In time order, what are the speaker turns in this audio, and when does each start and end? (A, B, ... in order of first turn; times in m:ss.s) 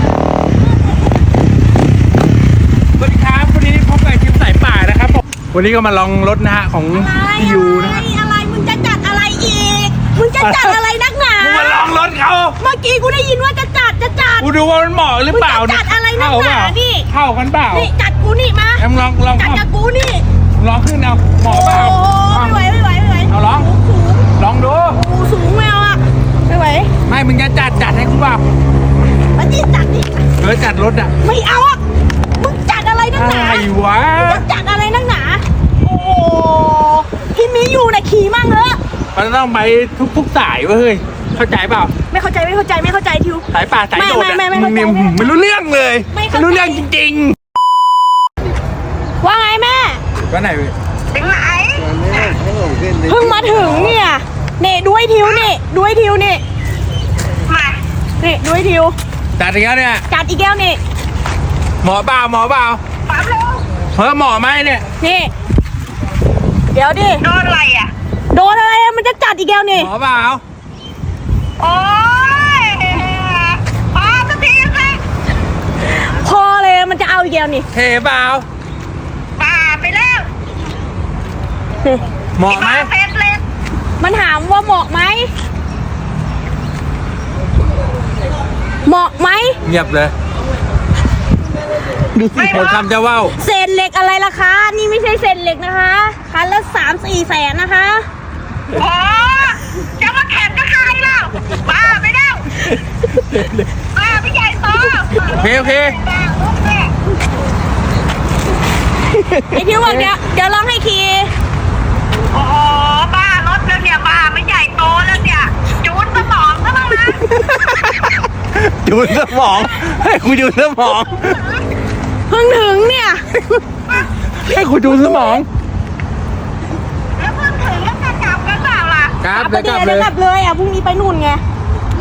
0:03.0-0:08.1 A
0:06.9-0:11.9 B
0:10.4-0:10.8 A
0:11.4-0:12.6 A
0:12.6-0:14.5 B
0:14.4-0:17.9 A
0:15.3-0:17.1 B
0:17.7-0:20.2 B
0:18.8-0:19.6 A
0:20.6-0:22.6 A
0:21.5-0:24.3 B
0:23.3-0:23.7 A
0:24.4-0:25.0 A
0:24.9-0:26.9 B
0:27.1-0:28.4 A
0:29.3-0:30.2 B
0:30.4-0:31.1 A
0:31.2-0:31.8 B
0:32.4-0:38.8 B
0:33.2-0:34.4 A
0:39.2-0:41.9 A
0:42.1-0:45.3 B
0:43.5-0:47.4 A
0:46.1-0:46.8 B
0:49.2-0:50.0 B
0:50.3-0:50.8 A
0:51.1-0:52.4 C
0:53.0-0:56.4 B
0:55.2-0:55.5 C
0:57.5-0:57.8 C
0:58.2-0:59.0 B
0:59.4-1:00.0 A
1:00.1-1:00.8 B
1:01.8-1:02.8 A
1:03.1-1:03.6 C
1:03.9-1:04.8 A
1:05.0-1:05.3 B
1:06.7-1:07.2 B
1:07.2-1:07.9 C
1:08.3-1:09.9 B
1:09.8-1:10.4 A
1:11.6-1:15.0 C
1:15.9-1:17.7 B
1:17.7-1:18.5 A
1:19.4-1:20.3 C
1:22.4-1:22.9 A
1:22.5-1:23.4 C
1:24.0-1:25.3 B
1:28.8-1:29.6 B
1:29.6-1:30.1 A
1:32.3-1:32.9 C
1:32.3-1:33.4 A
1:33.3-1:38.1 B
1:38.7-1:42.6 C
1:43.9-1:46.9 C
1:45.3-1:46.0 A
1:49.4-1:51.3 B
1:52.3-1:58.0 C
1:58.5-2:01.4 A
2:01.2-2:01.6 C
2:02.3-2:03.6 B
2:04.4-2:05.5 A
2:04.8-2:05.4 B
2:07.2-2:09.2 C
2:09.2-2:10.1 A
2:09.3-2:11.4 B